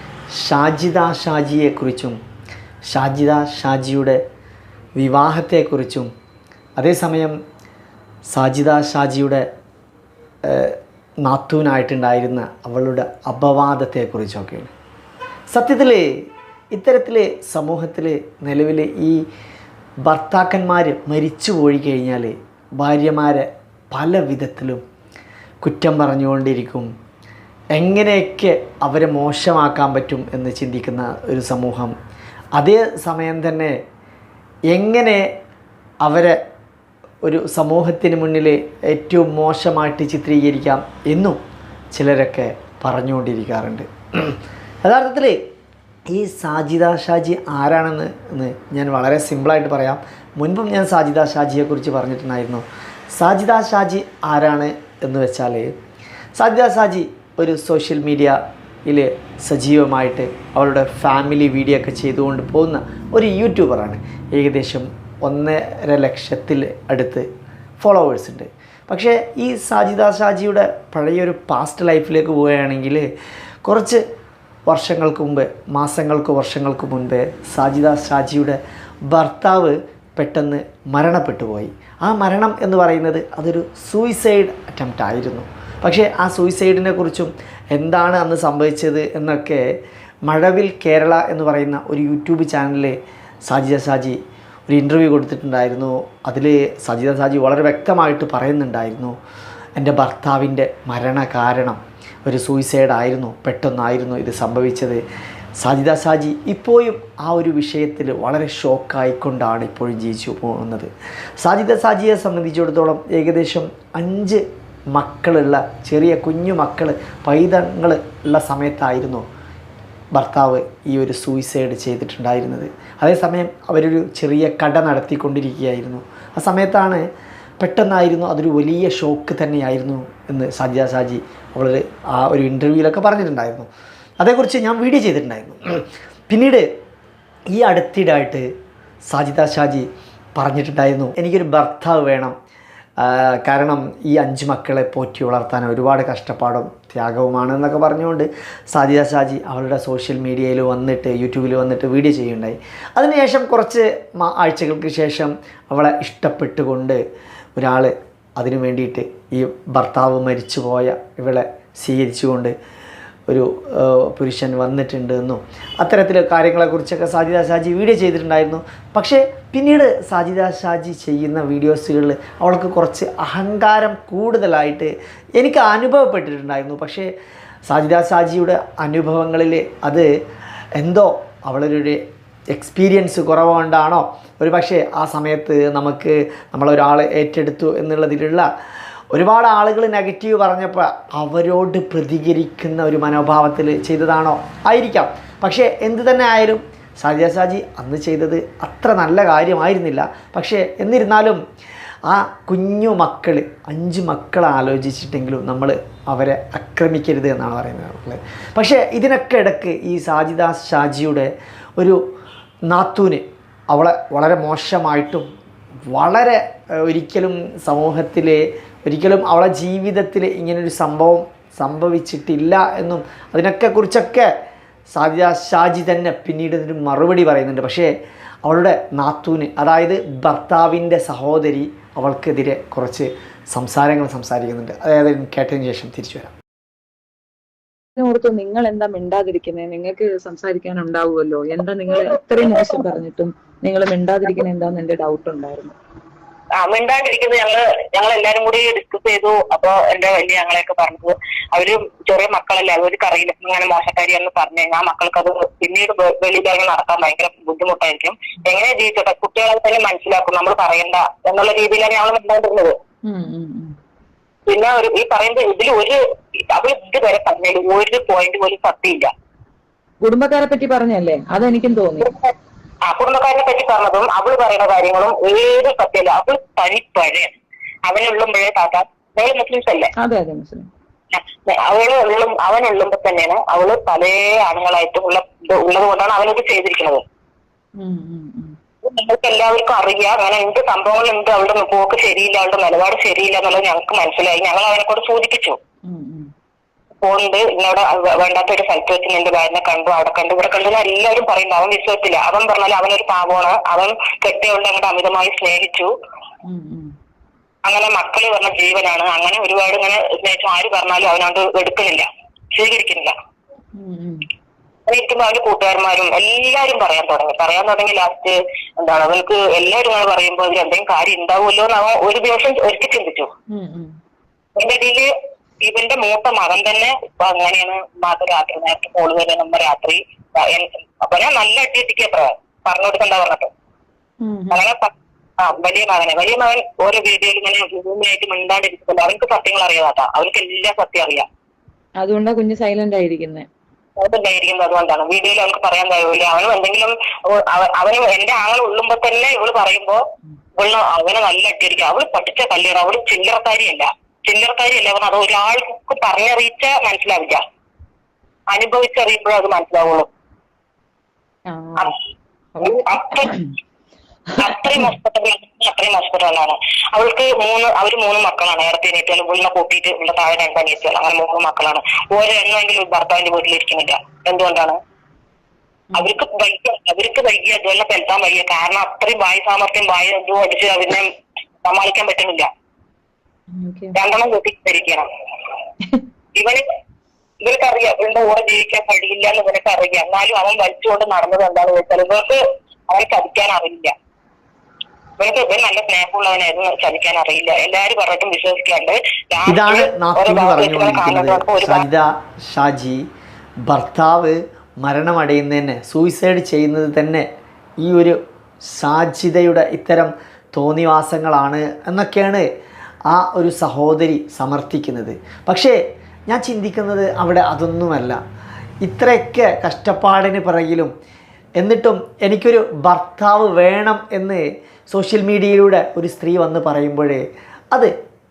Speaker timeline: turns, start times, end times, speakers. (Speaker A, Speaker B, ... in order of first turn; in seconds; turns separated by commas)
Speaker A: 0.4-2.2, Speaker A: 2.9-4.2, Speaker A: 5.0-6.1, Speaker A: 6.8-7.3, Speaker A: 8.3-9.4, Speaker A: 10.4-14.7, Speaker A: 15.5-16.1, Speaker A: 16.7-19.2, Speaker A: 20.0-24.8, Speaker A: 25.6-26.9, Speaker A: 27.7-31.9, Speaker A: 32.6-33.8, Speaker A: 34.7-35.3, Speaker A: 36.0-36.4, Speaker A: 37.2-41.4, Speaker A: 41.9-45.4, Speaker A: 46.1-55.7, Speaker A: 56.4-67.3, Speaker A: 67.8-73.0, Speaker A: 73.7-74.0, Speaker A: 74.7-78.6, Speaker A: 79.1-89.6, Speaker A: 90.3-93.0, Speaker A: 93.5-99.2, Speaker A: 99.8-105.0, Speaker A: 105.6-114.4, Speaker A: 114.9-119.2, Speaker A: 120.1-127.0, Speaker A: 127.6-133.7, Speaker A: 134.2-136.6, Speaker A: 137.5-138.5, Speaker A: 139.1-142.3, Speaker A: 143.0-157.0, Speaker A: 157.6-162.5, Speaker A: 163.3-177.1, Speaker A: 177.7-180.1, Speaker A: 180.8-182.0, Speaker A: 182.5-188.4, Speaker A: 189.1-201.4, Speaker A: 202.1-212.0, Speaker A: 212.7-215.3, Speaker A: 215.9-224.3, Speaker A: 224.9-227.9, Speaker A: 228.4-236.3, Speaker B: 238.0-245.8, Speaker C: 246.6-262.7, Speaker B: 263.0-263.7, Speaker C: 264.5-266.0, Speaker C: 266.5-269.1, Speaker B: 270.0-272.1, Speaker C: 272.0-272.3, Speaker C: 272.9-279.9, Speaker B: 280.0-280.7, Speaker C: 281.1-287.0, Speaker B: 287.8-288.5, Speaker C: 288.8-295.6, Speaker B: 295.9-296.3, Speaker C: 297.0-305.9, Speaker B: 306.4-306.9, Speaker C: 307.6-313.1, Speaker B: 313.8-314.3, Speaker C: 314.9-323.3, Speaker B: 323.5-323.9, Speaker C: 324.6-325.1, Speaker C: 325.6-333.5, Speaker B: 334.2-334.6, Speaker C: 334.5-341.2, Speaker B: 342.0-343.5, Speaker C: 344.0-350.0, Speaker C: 350.6-357.4, Speaker C: 358.5-360.1, Speaker B: 361.5-361.9, Speaker B: 362.5-363.5, Speaker C: 362.6-363.3, Speaker B: 364.3-364.9, Speaker C: 364.4-374.8, Speaker B: 375.9-376.2, Speaker C: 375.9-381.1, Speaker C: 381.6-382.5, Speaker B: 383.6-384.0, Speaker C: 383.9-385.1, Speaker C: 386.3-386.6, Speaker C: 387.4-393.9, Speaker C: 395.2-401.9, Speaker A: 399.4-403.0, Speaker A: 403.7-407.2, Speaker A: 407.8-408.2, Speaker A: 408.7-412.4, Speaker A: 413.1-415.8, Speaker A: 416.3-418.2, Speaker A: 418.8-420.9, Speaker A: 421.6-427.9